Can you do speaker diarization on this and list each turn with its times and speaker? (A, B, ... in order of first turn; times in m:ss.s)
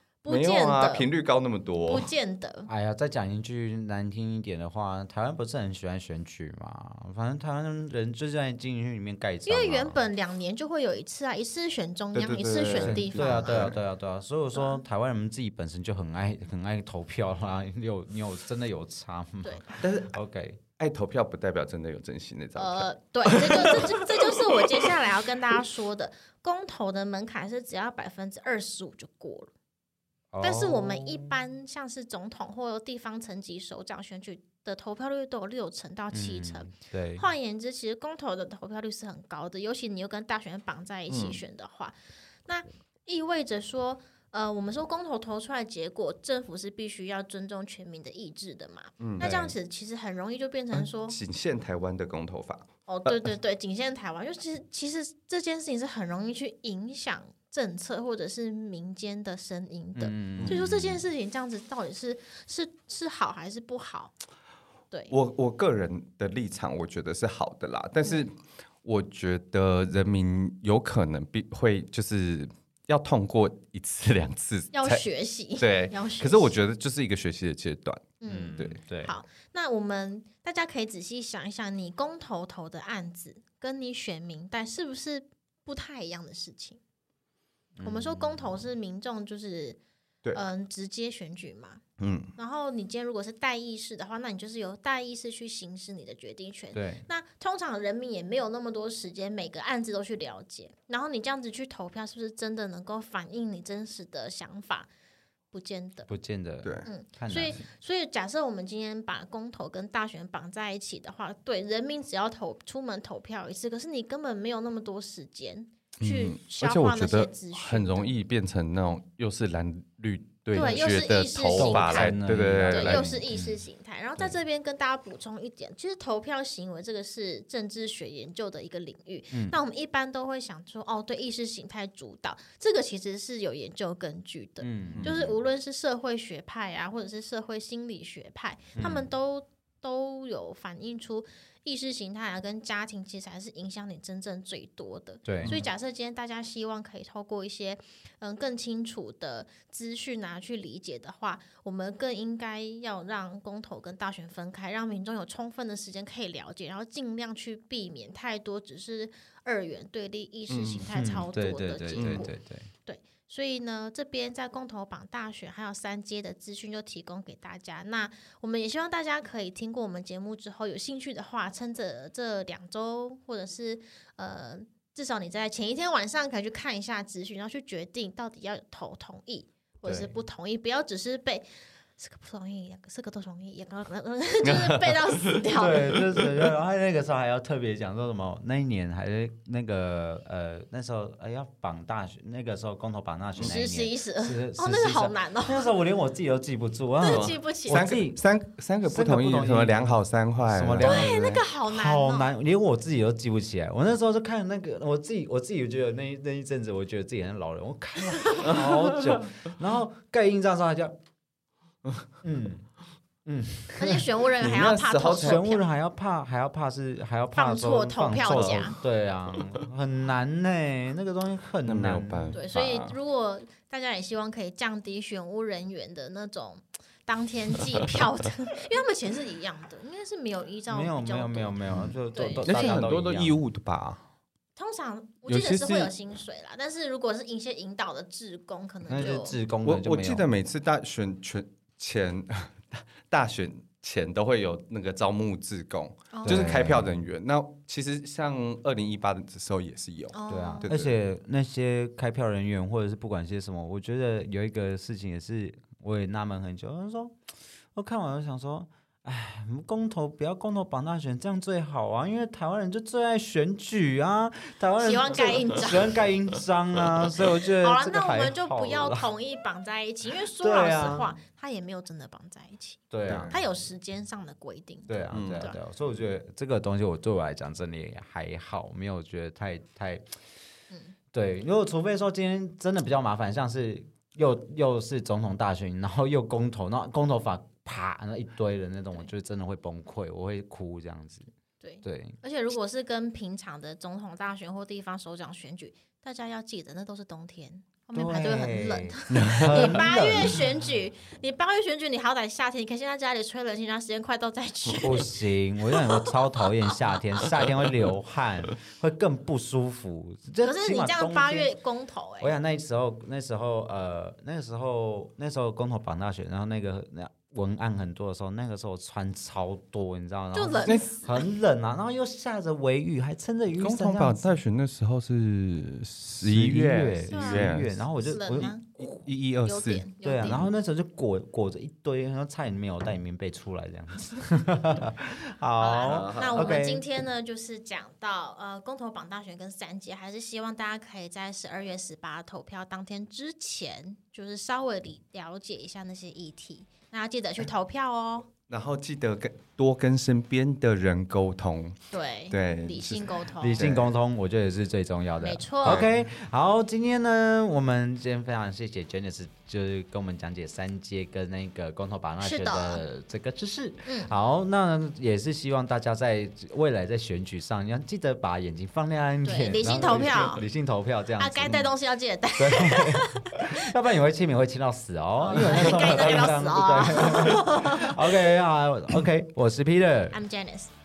0:00.2-0:01.1 A
0:00.3-0:02.1 B
0:01.9-0:02.7 A
0:02.7-0:10.0 C
0:09.4-0:13.8 A
0:12.1-0:13.7 B
0:12.7-0:20.6 C
0:14.5-0:14.8 A
0:19.4-0:19.8 A
0:19.8-0:20.1 B
0:20.8-0:24.8 B
0:22.6-0:29.5 A
0:30.3-0:31.3 C
0:30.4-0:41.9 A
0:36.1-0:37.2 C
0:41.1-0:41.4 B
0:42.4-0:51.2 A
0:49.0-0:49.3 B
0:49.2-0:49.5 C
0:50.7-0:53.3 B
0:52.9-1:04.1 A
0:59.9-1:01.0 C
1:00.4-1:00.6 B
1:05.1-1:15.0 B
1:14.7-1:16.5 A
1:15.6-1:18.8 B
1:18.2-1:26.8 A
1:18.2-1:19.1 C
1:27.8-1:28.6 C
1:27.8-1:29.8 A
1:30.3-1:31.8 A
1:32.0-1:32.3 B
1:32.4-1:44.9 A
1:36.7-1:37.0 C
1:45.5-1:46.1 A
1:46.1-1:47.6 C
1:46.6-1:46.9 B
1:46.8-1:58.1 A
1:56.0-2:03.1 B
2:00.5-2:02.2 A
2:01.6-2:03.6 C
2:02.7-2:42.3 A
2:09.3-2:09.6 C
2:14.6-2:15.3 C
2:14.9-2:15.3 B
2:18.8-2:19.1 C
2:25.2-2:25.6 C
2:40.5-2:40.8 B
2:40.9-2:42.7 C
2:42.0-2:42.2 B
2:42.8-3:01.4 A
2:59.8-3:00.1 C
3:02.0-3:06.0 A
3:04.4-3:05.4 B
3:05.5-3:18.2 C
3:06.0-3:06.3 B
3:13.4-3:15.7 A
3:17.0-3:17.9 A
3:17.0-3:21.4 B
3:18.8-3:31.0 C
3:20.8-3:22.3 A
3:28.2-3:28.5 A
3:28.5-3:29.2 B
3:32.2-3:32.7 C
3:33.2-3:34.0 C
3:33.8-3:35.6 A
3:34.4-3:35.5 B
3:35.1-3:42.4 C
3:37.3-3:38.8 A
3:38.2-3:38.6 B
3:41.6-3:43.0 B
3:42.3-3:51.6 A
3:50.7-3:53.4 C
3:51.7-3:54.0 B
3:52.1-3:52.8 A
3:54.6-3:59.4 A
3:55.3-3:55.9 B
3:58.8-4:00.2 C
3:59.6-4:10.9 B
4:06.1-4:06.6 A
4:06.2-4:06.9 C
4:10.1-4:10.7 A
4:10.3-4:17.2 C
4:17.7-4:29.1 C
4:24.8-4:25.9 A
4:27.6-4:35.6 A
4:30.4-4:31.1 C
4:32.9-4:33.4 C
4:33.0-4:33.4 B
4:34.9-4:40.1 C
4:35.1-4:35.5 B
4:41.1-4:51.3 C
4:51.6-5:05.1 A
4:51.8-4:52.2 C
4:57.9-5:00.5 C
4:59.1-4:59.7 B
5:04.8-5:11.5 C
5:05.7-5:07.2 A
5:10.4-5:12.3 A
5:12.2-5:24.4 C
5:20.3-5:21.3 A
5:23.6-5:27.8 B
5:26.2-5:28.5 C
5:27.1-5:28.7 A
5:28.3-5:29.8 B
5:29.4-5:30.5 A
5:30.0-5:36.8 C
5:35.6-5:48.3 A
5:35.8-5:36.6 B
5:48.5-5:53.9 B
5:51.9-5:53.7 A
5:53.4-6:11.7 C
5:55.2-5:55.8 A
5:55.6-5:55.9 B
6:02.2-6:02.8 A
6:03.8-6:04.1 A
6:09.2-6:10.4 A
6:11.2-6:13.6 A
6:12.4-6:20.2 C
6:15.2-6:18.1 A
6:15.3-6:16.3 B
6:20.1-6:20.7 A